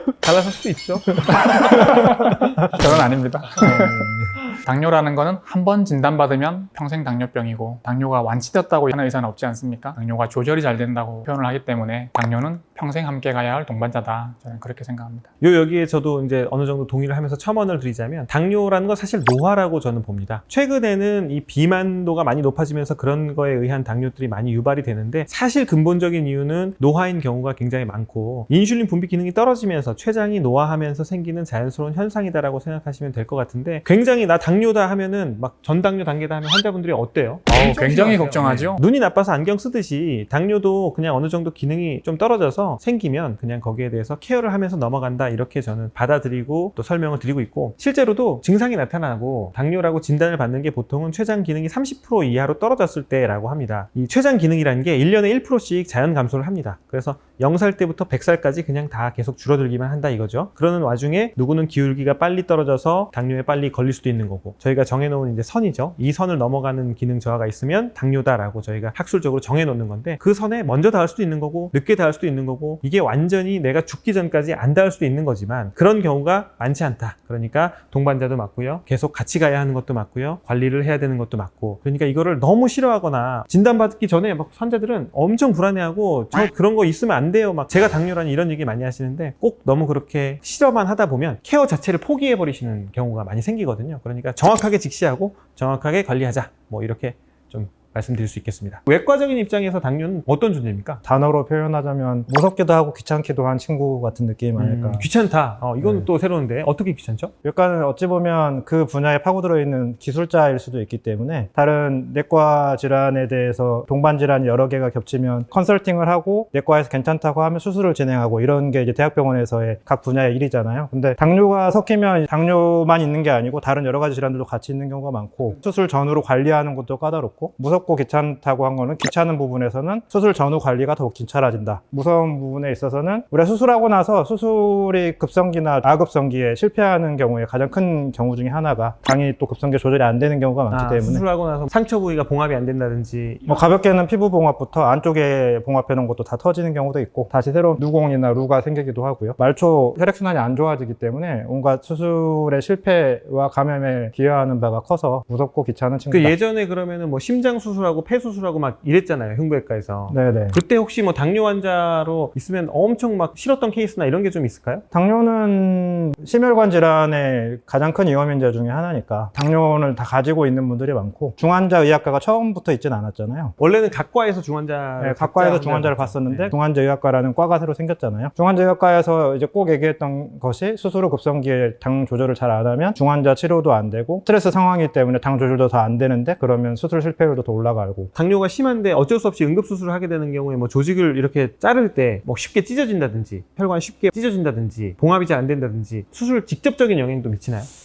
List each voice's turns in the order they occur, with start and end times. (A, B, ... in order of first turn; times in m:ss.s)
0:00.2-0:03.0 A
0:01.3-0:15.3 B
0:03.6-0:04.4 C
0:15.4-1:41.0 A
0:37.5-0:38.8 B
1:41.0-1:45.0 C
1:44.6-1:47.3 A
1:47.4-2:21.2 C
2:20.7-2:23.5 A
2:23.4-2:36.3 C
2:36.1-2:44.8 A
2:40.1-2:40.6 C
2:44.9-2:53.5 C
2:53.6-2:56.5 A
2:55.0-3:08.1 C
3:08.1-3:17.7 A